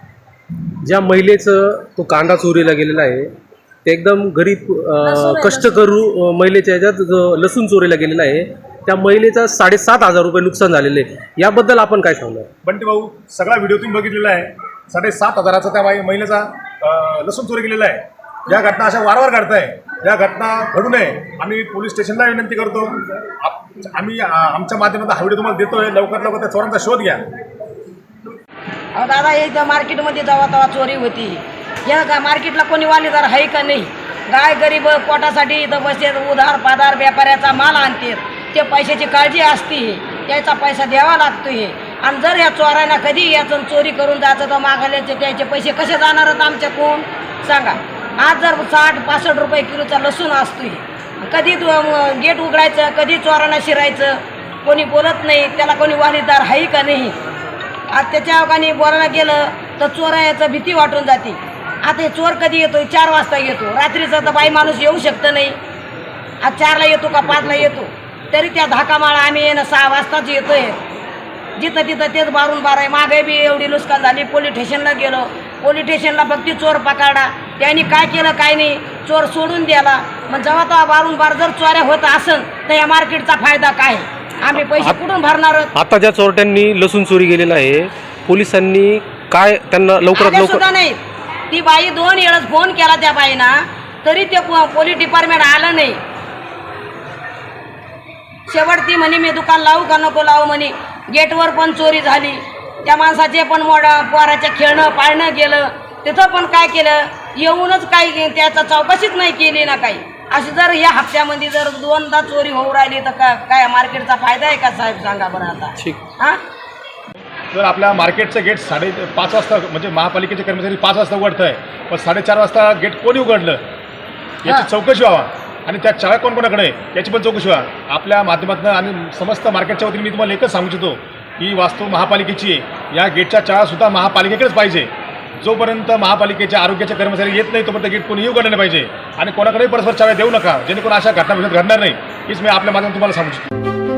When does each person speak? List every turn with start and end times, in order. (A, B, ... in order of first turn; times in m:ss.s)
0:00.8-0:03.3 A
0:03.8-0:12.5 A
0:05.0-0:05.7 B
0:12.6-0:27.2 C
0:28.9-0:57.2 B
0:57.9-1:05.6 B
1:06.4-1:10.8 B
1:11.6-1:25.7 B
1:24.6-1:25.0 A
1:25.7-1:30.6 A
1:30.1-1:36.0 B
1:38.5-1:56.4 B
1:57.5-2:03.6 C
2:04.4-2:23.5 C